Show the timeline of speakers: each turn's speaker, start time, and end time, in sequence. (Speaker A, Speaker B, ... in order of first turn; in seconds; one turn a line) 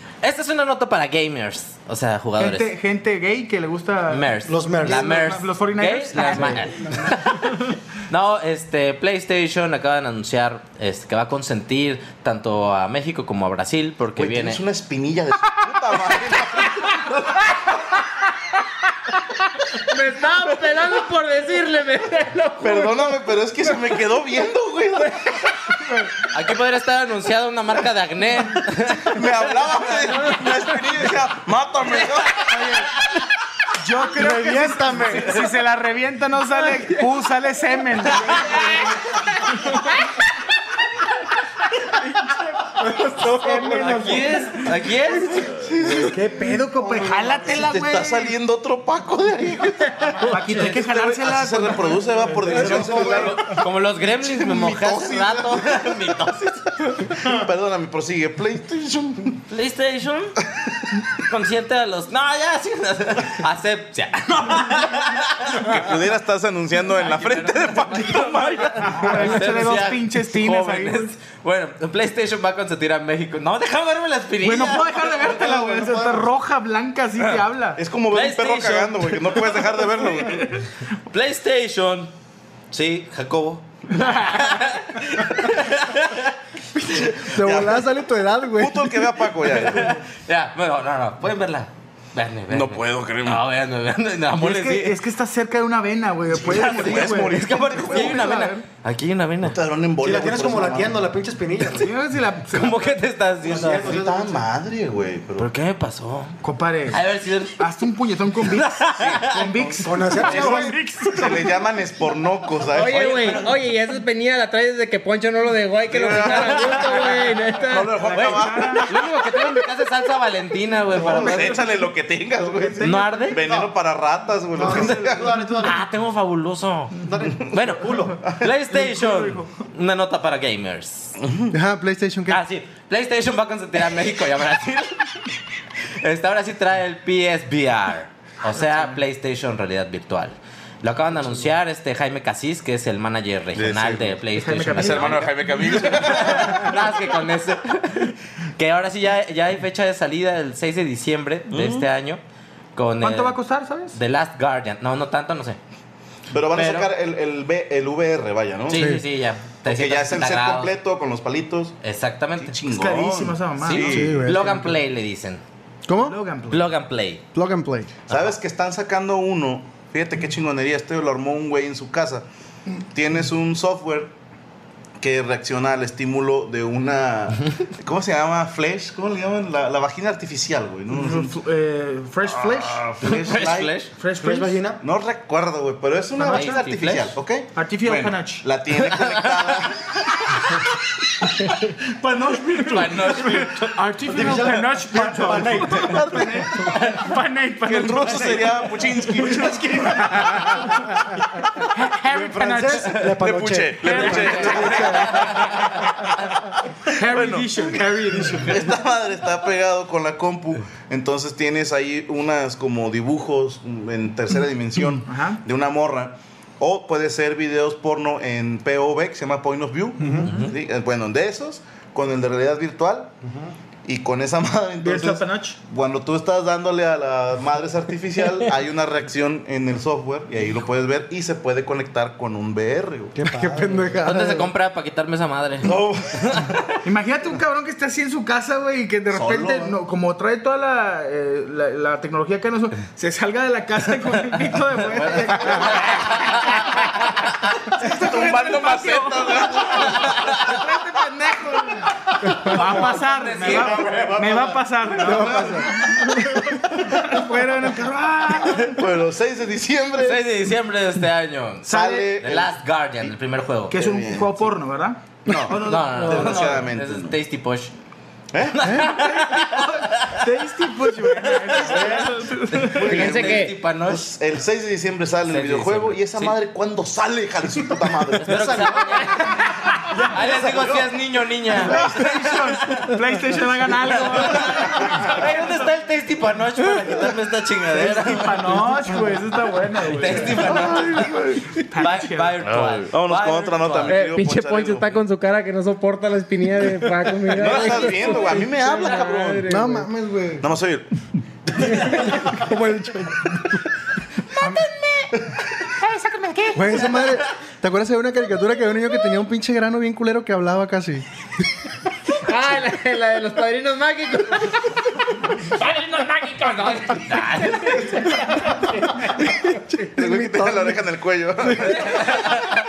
Speaker A: 0.2-2.7
Speaker B: 2.4-6.9
Speaker A: 4.1-7.5
Speaker C: 4.5-5.1
Speaker A: 8.1-14.6
Speaker D: 14.2-17.4
Speaker E: 19.8-23.1
Speaker D: 22.6-25.3
Speaker A: 26.3-29.2
Speaker D: 29.0-32.6
Speaker E: 30.1-30.8
Speaker B: 33.8-38.9
Speaker C: 34.1-35.4
Speaker B: 42.4-44.4
Speaker C: 43.2-44.1
Speaker A: 43.7-46.1
Speaker D: 45.7-46.0
Speaker B: 45.9-48.4
Speaker C: 46.1-47.5
Speaker D: 47.4-53.6
Speaker B: 50.2-52.9
Speaker E: 50.2-50.6
Speaker C: 52.2-53.4
Speaker A: 52.6-56.9
Speaker D: 54.2-56.2
Speaker D: 57.2-59.4
Speaker A: 59.5-60.4
Speaker A: 61.2-66.0
Speaker D: 65.6-69.2
Speaker A: 66.9-75.4
Speaker B: 68.9-71.1
Speaker B: 74.4-77.8
Speaker C: 75.2-76.2
Speaker D: 77.8-80.5
Speaker A: 78.1-82.1
Speaker A: 82.7-86.3
Speaker F: 86.9-88.9
Speaker D: 87.4-87.8
Speaker D: 88.6-90.0
Speaker A: 89.5-95.0
Speaker D: 92.5-93.4
Speaker B: 94.3-98.6
Speaker D: 96.4-98.3
Speaker A: 96.4-99.5
Speaker D: 99.4-101.0
Speaker C: 100.0-101.9
Speaker B: 101.8-103.0
Speaker A: 102.5-104.0
Speaker C: 103.4-104.5
Speaker D: 103.7-105.5
Speaker A: 105.4-106.3
Speaker B: 106.4-107.1
Speaker A: 106.9-107.7
Speaker B: 107.6-111.6
Speaker A: 108.5-109.5
Speaker C: 109.8-110.8
Speaker D: 110.2-113.4
Speaker E: 112.7-118.1
Speaker D: 115.9-119.0
Speaker A: 116.2-117.2
Speaker B: 117.7-118.9
Speaker A: 118.8-121.6
Speaker B: 121.0-123.4
Speaker D: 121.0-125.4
Speaker A: 122.8-123.4
Speaker C: 123.3-123.7
Speaker C: 124.5-125.8
Speaker B: 124.6-125.1
Speaker A: 125.6-126.9
Speaker C: 127.0-128.2
Speaker A: 127.5-131.2
Speaker B: 128.7-129.6
Speaker D: 131.2-131.5
Speaker F: 131.5-132.4
Speaker A: 132.3-135.3
Speaker A: 136.0-152.2
Speaker B: 138.5-139.0
Speaker D: 143.5-146.7
Speaker B: 144.3-146.2
Speaker D: 151.5-151.9
Speaker A: 152.8-153.3
Speaker B: 153.0-154.0
Speaker A: 153.9-155.6
Speaker D: 156.3-158.9
Speaker A: 156.5-156.9
Speaker A: 158.7-160.7
Speaker F: 158.7-159.0
Speaker D: 159.6-161.7
Speaker A: 161.8-162.6
Speaker D: 162.3-164.3
Speaker B: 162.7-164.0
Speaker A: 163.7-165.4
Speaker F: 163.8-164.7
Speaker F: 165.9-166.2
Speaker B: 166.0-166.6
Speaker A: 166.5-167.2
Speaker F: 167.3-167.9
Speaker D: 168.1-172.2
Speaker D: 172.9-174.1
Speaker D: 175.0-181.3
Speaker B: 180.9-182.9
Speaker D: 182.3-183.9
Speaker A: 183.0-183.9
Speaker B: 183.9-184.6
Speaker C: 184.2-184.8
Speaker D: 184.8-190.6
Speaker C: 186.2-186.6
Speaker A: 186.2-187.1
Speaker B: 187.5-188.4
Speaker A: 188.8-189.6
Speaker B: 192.0-201.0
Speaker D: 192.3-193.4
Speaker A: 192.6-193.8
Speaker C: 194.1-196.2
Speaker D: 195.4-196.7
Speaker A: 196.6-197.1
Speaker D: 197.6-200.1
Speaker B: 201.7-203.1
Speaker C: 202.1-205.1
Speaker D: 203.2-205.6
Speaker B: 203.8-205.6
Speaker A: 204.5-205.4
Speaker B: 207.0-208.7
Speaker D: 207.0-207.8
Speaker D: 208.4-223.1
Speaker B: 215.1-215.4
Speaker C: 220.0-220.4
Speaker C: 223.2-223.5
Speaker D: 223.8-233.1
Speaker B: 224.8-225.6
Speaker C: 233.1-234.0
Speaker F: 233.2-234.5
Speaker A: 234.0-236.5
Speaker D: 235.6-236.2
Speaker B: 236.8-246.4
Speaker D: 239.1-239.8
Speaker A: 245.4-246.4
Speaker B: 247.7-258.8
Speaker D: 247.8-250.1
Speaker A: 249.9-250.4
Speaker A: 252.5-253.8
Speaker D: 253.4-255.6
Speaker F: 255.0-256.4
Speaker D: 258.8-260.2
Speaker A: 260.0-263.7
Speaker B: 261.6-262.2
Speaker D: 261.7-262.5
Speaker B: 263.7-266.6
Speaker D: 263.7-264.4
Speaker D: 265.2-267.2
Speaker F: 265.3-265.5
Speaker A: 265.5-267.7
Speaker D: 268.3-268.7
Speaker A: 268.5-270.2
Speaker B: 268.9-272.9
Speaker A: 271.1-274.1
Speaker C: 271.7-272.1
Speaker D: 272.7-278.6
Speaker E: 272.9-273.5
Speaker A: 275.3-276.3
Speaker A: 278.2-279.5
Speaker C: 278.2-279.3
Speaker C: 279.9-280.4
Speaker A: 280.1-281.8
Speaker D: 280.4-280.9
Speaker D: 281.6-282.1
Speaker B: 281.6-285.6
Speaker A: 282.5-282.9
Speaker A: 283.9-288.7
Speaker B: 287.7-290.5
Speaker A: 289.8-294.0
Speaker D: 290.5-291.5
Speaker B: 291.7-292.4
Speaker D: 292.4-295.0
Speaker E: 293.9-299.9
Speaker D: 297.3-299.5
Speaker F: 299.5-300.4
Speaker D: 300.4-300.9
Speaker D: 301.6-302.0
Speaker F: 301.7-303.6
Speaker E: 304.4-305.1
Speaker F: 304.4-304.6
Speaker E: 305.7-307.2
Speaker F: 306.5-311.0
Speaker E: 312.2-319.6
Speaker F: 319.3-320.8
Speaker D: 319.9-322.4